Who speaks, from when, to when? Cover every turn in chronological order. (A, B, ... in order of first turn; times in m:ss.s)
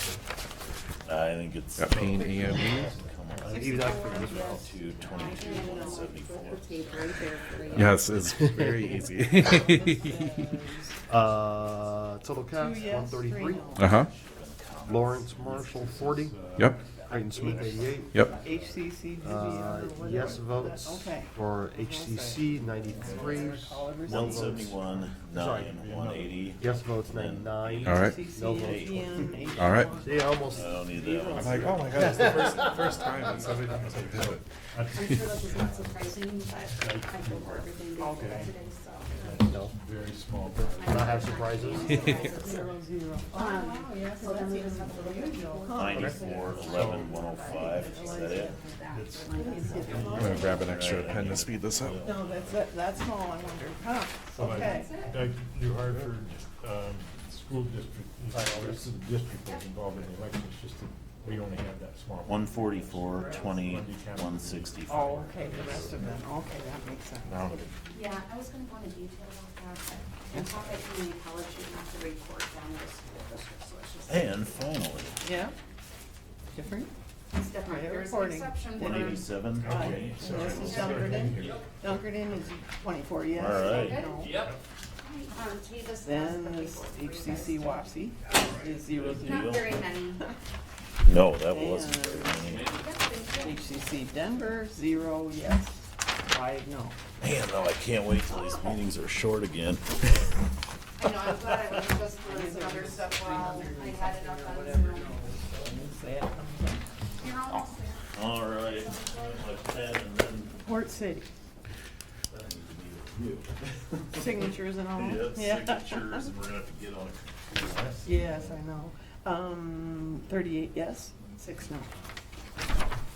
0:01.0-0:07.1 A
0:01.8-0:03.0 B
0:02.0-0:02.2 C
0:03.4-0:04.7 D
0:03.5-0:04.6 E
0:03.6-0:08.0 F
0:05.1-0:06.0 E
0:07.7-0:08.4 A
0:07.7-0:10.4 B
0:08.4-0:09.0 D
0:09.4-0:10.9 E
0:11.1-0:13.8 D
0:12.6-0:13.9 E
0:13.7-0:16.1 A
0:13.8-0:14.1 B
0:14.9-0:18.2 D
0:15.5-0:16.8 C
0:17.3-0:17.8 E
0:17.4-0:18.4 A
0:18.4-0:24.7 E
0:19.2-0:24.8 D
0:23.1-0:23.8 C
0:24.0-0:29.8 A
0:25.3-0:25.7 D
0:25.6-0:26.5 C
0:26.6-0:29.0 D
0:27.8-0:28.2 B
0:27.9-0:31.9 E
0:29.6-0:30.0 B
0:30.0-0:30.8 D
0:30.4-0:32.0 A
0:31.2-0:35.9 C
0:31.3-0:34.4 B
0:32.1-0:33.0 D
0:34.9-0:39.4 F
0:36.7-0:38.6 C
0:38.0-0:38.5 E
0:39.1-0:42.2 C
0:39.4-0:39.8 D
0:40.7-0:42.7 F
0:40.8-0:41.9 D
0:41.9-0:42.3 B
0:41.9-0:48.6 E
0:43.3-0:50.6 F
0:45.7-0:48.6 A
0:46.6-0:47.2 C
0:49.3-0:50.7 E
0:49.8-0:50.3 C
0:49.9-0:52.5 A
0:50.1-0:52.1 B
0:52.0-0:54.9 E
0:54.4-1:05.9 C
0:54.4-0:55.2 F
0:58.3-0:58.9 D
1:02.2-1:05.5 A
1:04.9-1:07.6 E
1:07.2-1:07.7 C
1:07.9-1:15.1 F
1:14.1-1:15.2 A
1:15.2-1:15.5 E
1:16.5-1:16.9 E
1:17.3-1:19.4 F
1:17.6-1:24.4 E
1:18.8-1:21.3 A
1:19.6-1:21.6 C
1:23.4-1:24.0 A
1:23.5-1:24.4 F
1:25.0-1:28.0 F
1:26.0-1:29.7 E
1:28.9-1:29.8 A
1:29.2-1:30.2 F
1:31.0-1:32.8 A
1:31.5-1:32.6 E
1:32.7-1:33.9 F
1:33.4-1:37.0 E
1:37.2-1:40.1 A
1:41.0-1:45.2 F
1:42.2-1:46.8 E
1:47.2-1:49.4 F
1:48.1-1:50.6 A
1:50.6-1:51.3 E
1:52.3-1:58.6 A
1:54.1-1:56.3 E
1:58.0-2:01.9 E